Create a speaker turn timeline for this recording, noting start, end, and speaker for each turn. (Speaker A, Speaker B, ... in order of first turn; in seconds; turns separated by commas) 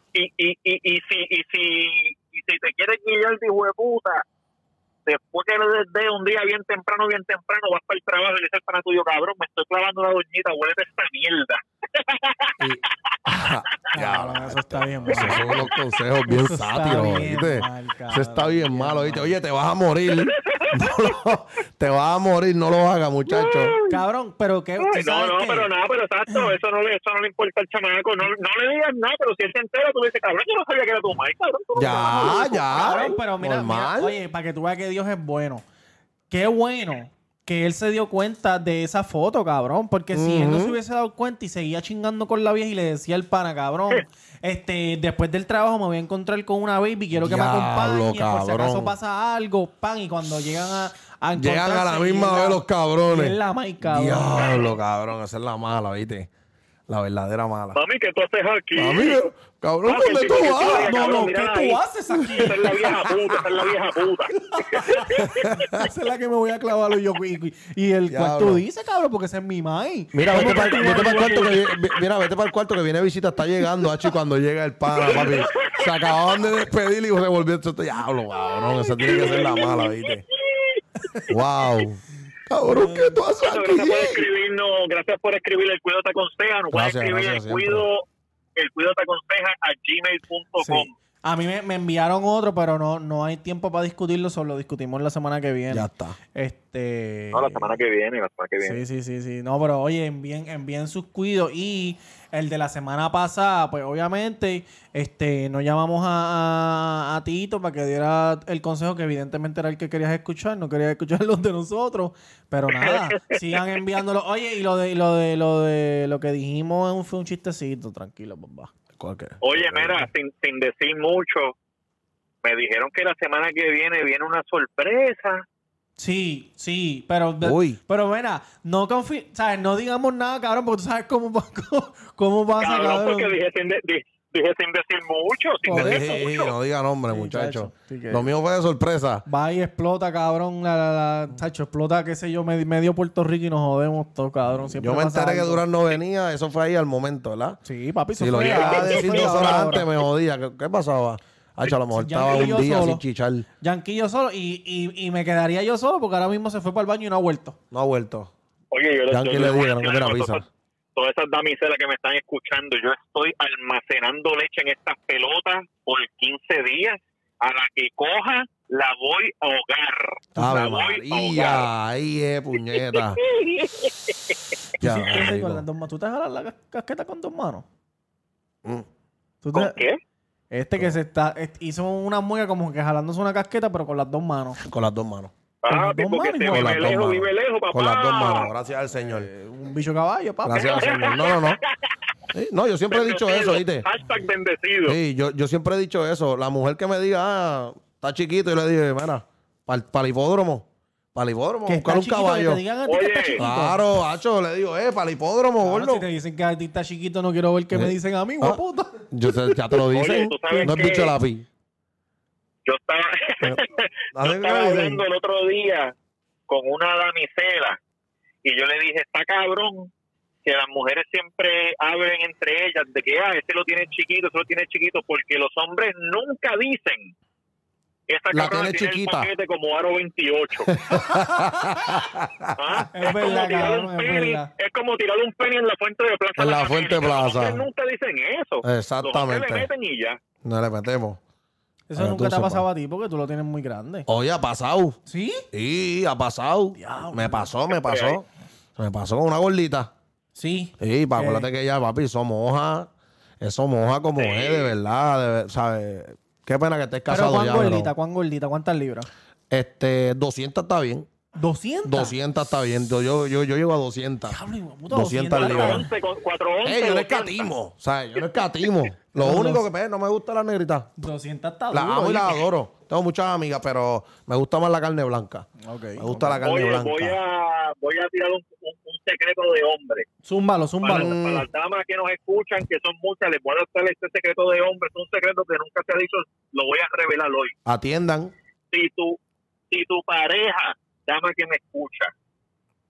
Speaker A: 0.1-4.2, Speaker A: 5.0-12.6, Speaker B: 12.6-23.8, Speaker C: 13.9-15.7, Speaker A: 15.1-15.5, Speaker C: 16.3-19.3, Speaker A: 20.2-20.9, Speaker A: 23.3-24.0, Speaker C: 23.9-25.7, Speaker A: 24.8-33.1, Speaker B: 31.7-34.1, Speaker C: 32.1-35.6, Speaker C: 36.3-54.7, Speaker B: 40.1-40.8, Speaker B: 47.1-48.9, Speaker B: 51.3-56.3, Speaker B: 56.9-57.8, Speaker A: 57.7-59.2, Speaker B: 58.8-60.9, Speaker A: 59.8-61.8, Speaker C: 60.6-62.8, Speaker B: 62.2-63.4, Speaker A: 62.3-65.2, Speaker C: 64.3-71.6, Speaker B: 65.2-65.8, Speaker B: 68.1-68.6, Speaker B: 70.1-80.2, Speaker A: 75.0-75.9, Speaker A: 78.7-80.8, Speaker B: 81.3-84.3, Speaker C: 82.7-83.2, Speaker A: 83.4-88.0, Speaker B: 86.7-87.8, Speaker A: 88.5-90.9, Speaker C: 90.6-97.7, Speaker B: 95.7-96.2, Speaker A: 97.3-98.8, Speaker C: 98.6-118.7, Speaker A: 112.7-113.6, Speaker B: 119.0-120.1, Speaker A: 119.4-121.5, Speaker A: 122.4-125.4, Speaker C: 126.0-133.3, Speaker B: 127.4-127.8, Speaker A: 132.6-136.5, Speaker C: 135.6-136.2, Speaker B: 135.7-139.2, Speaker C: 137.1-138.3, Speaker C: 139.2-145.6, Speaker B: 144.5-147.6, Speaker C: 147.6-149.9, Speaker B: 148.2-153.4, Speaker A: 148.5-149.4, Speaker C: 151.7-153.0, Speaker C: 153.6-157.6, Speaker B: 157.7-158.3, Speaker A: 158.7-160.4, Speaker B: 159.1-160.4, Speaker A: 160.9-171.7, Speaker B: 170.4-173.2, Speaker A: 172.9-174.3, Speaker B: 174.8-175.6, Speaker C: 174.8-177.7, Speaker C: 179.4-179.8, Speaker A: 179.5-180.0, Speaker C: 180.5-184.6, Speaker B: 184.6-185.3, Speaker A: 185.6-188.5, Speaker C: 185.7-187.0, Speaker B: 186.5-189.3, Speaker C: 188.9-191.1, Speaker B: 190.4-191.6, Speaker A: 190.6-191.7, Speaker B: 192.3-193.9, Speaker A: 192.9-195.0, Speaker B: 194.8-202.6, Speaker C: 201.7-203.9, Speaker A: 202.9-203.4, Speaker B: 203.4-206.0, Speaker C: 205.6-209.8, Speaker B: 207.7-208.6, Speaker B: 209.1-211.4, Speaker A: 209.9-211.2, Speaker C: 210.4-210.8, Speaker A: 212.6-215.9, Speaker B: 214.1-215.0, Speaker A: 216.5-217.8, Speaker A: 218.4-219.9, Speaker A: 220.4-227.1, Speaker A: 228.1-230.8, Speaker B: 228.3-229.3, Speaker B: 230.7-232.9, Speaker A: 232.6-240.2, Speaker C: 232.9-234.5, Speaker B: 236.4-237.6, Speaker B: 238.6-239.7, Speaker B: 240.4-241.2, Speaker C: 241.9-244.1, Speaker B: 241.9-242.7, Speaker B: 244.1-245.0, Speaker C: 245.1-245.4, Speaker B: 245.5-248.2, Speaker C: 246.8-247.5, Speaker A: 247.8-248.2, Speaker B: 248.8-249.9, Speaker C: 250.3-251.5, Speaker B: 250.8-252.9, Speaker B: 253.4-257.9, Speaker A: 254.2-254.7, Speaker C: 257.1-259.1, Speaker B: 259.5-261.1, Speaker C: 261.4-262.2, Speaker B: 261.8-264.4, Speaker C: 264.3-265.9, Speaker B: 264.9-265.9, Speaker A: 265.3-267.5, Speaker B: 266.6-270.9, Speaker C: 269.2-269.6, Speaker C: 271.0-272.5, Speaker B: 271.7-277.2, Speaker C: 275.6-276.4, Speaker A: 276.4-280.1, Speaker C: 280.2-281.2, Speaker A: 280.8-287.5, Speaker B: 280.8-281.5, Speaker B: 287.6-288.3, Speaker A: 288.7-289.2, Speaker A: 289.7-292.1